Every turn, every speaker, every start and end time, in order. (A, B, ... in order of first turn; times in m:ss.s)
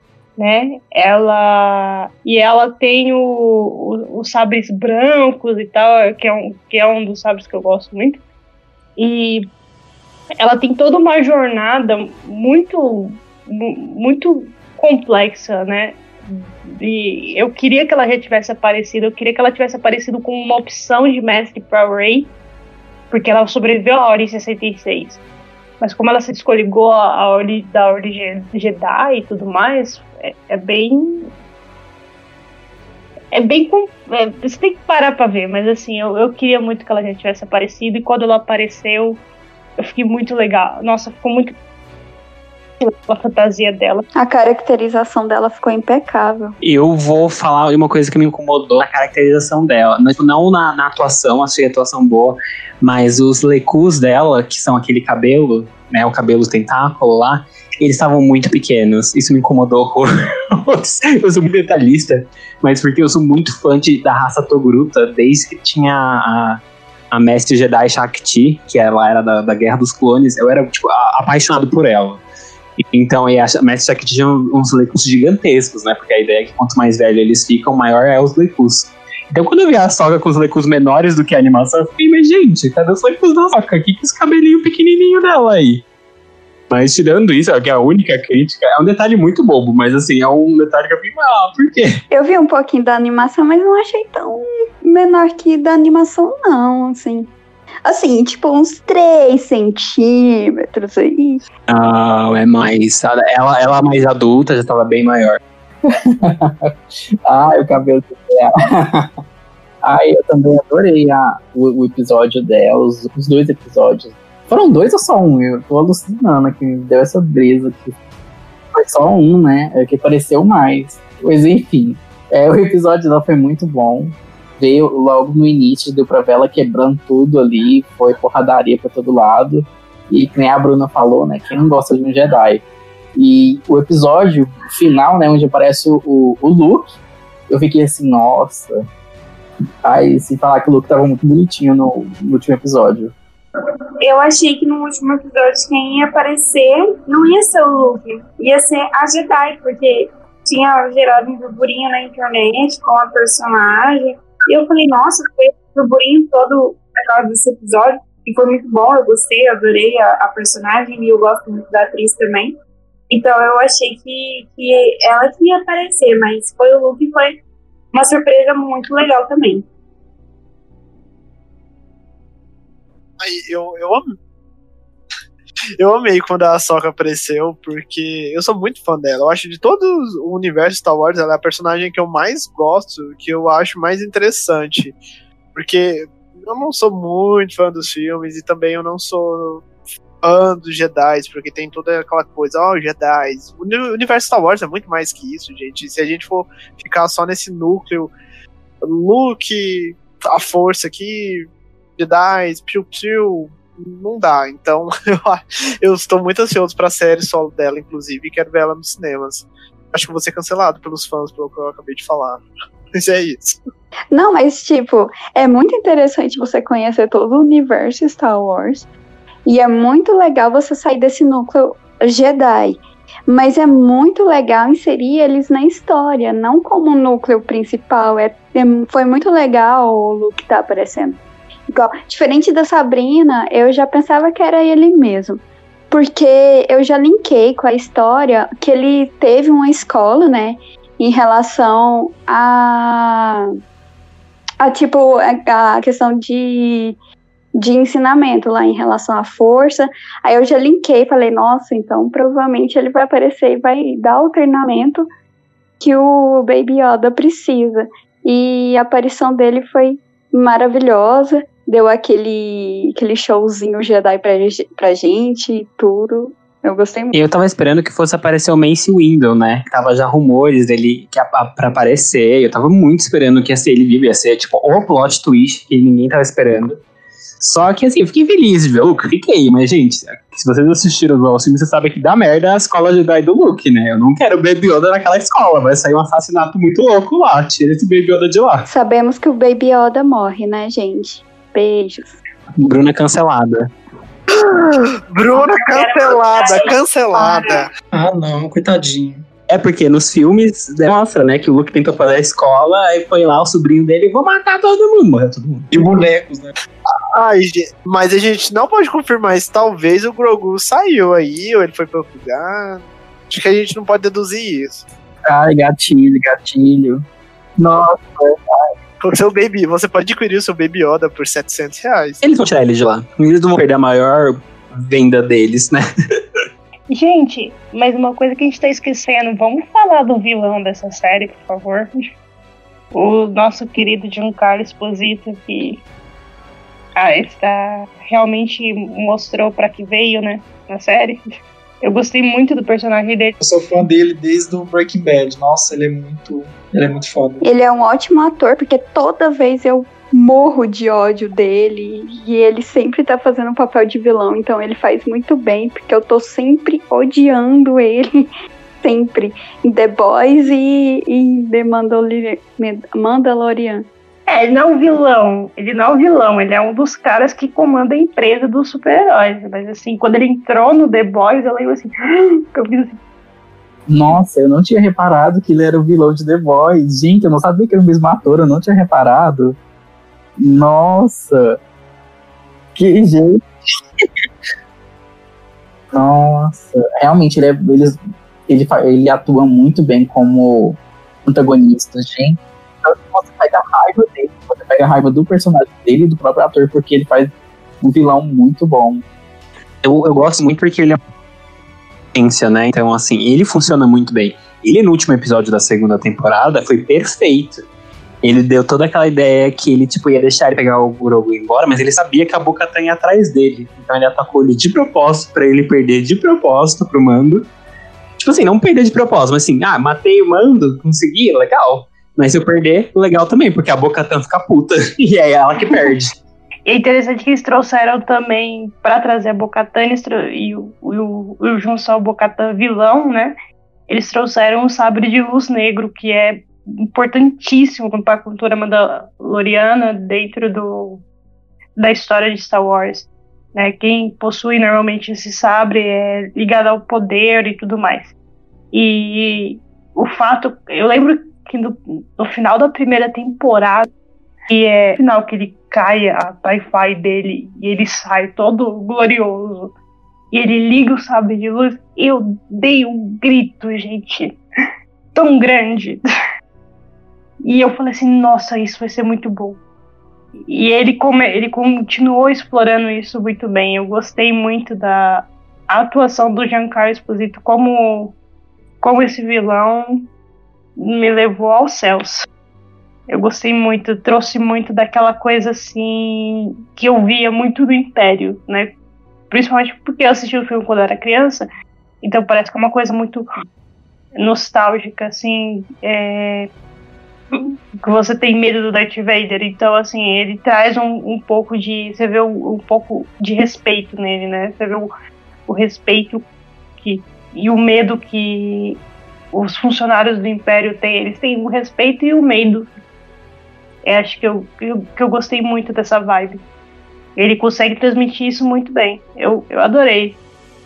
0:00.4-0:08.2 A
0:09.0-0:09.5 A
0:10.4-0:22.3 A
0:23.1-0:25.2 A
0:25.8-0:31.3 A
0:33.3-0:39.2 A
0:39.8-0:41.6 A
0:42.8-0:44.0 A
0:44.2-0:46.6 B
0:46.6-1:06.6 C
1:07.1-1:12.2 C
1:12.8-1:25.8 C
1:26.7-1:32.0 C
1:32.1-1:37.3 B
1:37.8-1:41.4 B
1:41.7-1:45.4 C
1:45.9-1:49.1 D
1:49.8-1:57.9 D
1:58.7-2:12.6 D
2:13.1-2:17.0 D
2:17.5-2:18.8 D
2:19.8-2:23.1 D
2:24.0-2:42.6 E
2:43.1-2:47.4 E
2:47.9-2:49.7 E
2:53.2-2:54.1 F
2:55.8-3:05.0 F
3:05.5-3:09.6 F
3:10.2-3:18.1 F
3:18.8-3:33.6 F
3:34.1-3:38.9 B
3:39.4-3:51.2 B
3:51.7-4:03.5 B
4:04.6-4:07.0 B
4:07.6-4:15.1 B
4:15.8-4:27.1 B
4:27.1-4:36.8 C
4:37.4-4:48.6 C
4:48.7-4:52.2 B
4:52.6-4:53.7 C
4:54.3-4:57.7 F
4:55.3-4:57.7 E
4:57.9-4:59.2 G
4:59.5-5:05.7 C
5:05.7-5:06.5 G
5:07.1-5:14.8 F
5:15.3-5:17.0 D
5:17.6-5:18.7 D
5:19.0-5:22.2 F
5:22.2-5:25.8 C
5:26.9-5:31.9 A
5:32.9-5:35.8 A
5:37.0-5:43.4 A
5:43.4-5:47.4 G
5:47.4-5:58.3 B
5:58.8-6:03.9 B
6:04.3-6:13.0 A
6:13.9-6:19.6 D
6:20.4-6:21.6 D
6:22.7-6:23.4 D
6:25.9-6:39.0 D
6:39.8-6:41.0 C
6:42.1-6:47.6 C
6:48.2-6:57.5 C
6:58.2-7:06.2 C
7:06.7-7:13.3 A
7:13.9-7:21.0 A
7:21.8-7:28.1 A
7:28.7-7:33.9 A
7:34.5-7:39.7 A
7:40.3-7:44.4 A
7:45.1-7:46.0 A
7:47.4-7:49.6 A
7:50.5-7:58.2 A
7:58.8-8:00.1 A
8:00.8-8:02.3 A
8:03.1-8:08.7 A
8:09.3-8:11.5 A
8:12.0-8:13.3 A
8:14.2-8:16.5 A
8:17.3-8:24.9 A
8:25.5-8:26.2 A
8:26.8-8:28.8 A
8:29.3-8:32.7 A
8:33.8-8:36.4 A
8:37.2-8:40.2 A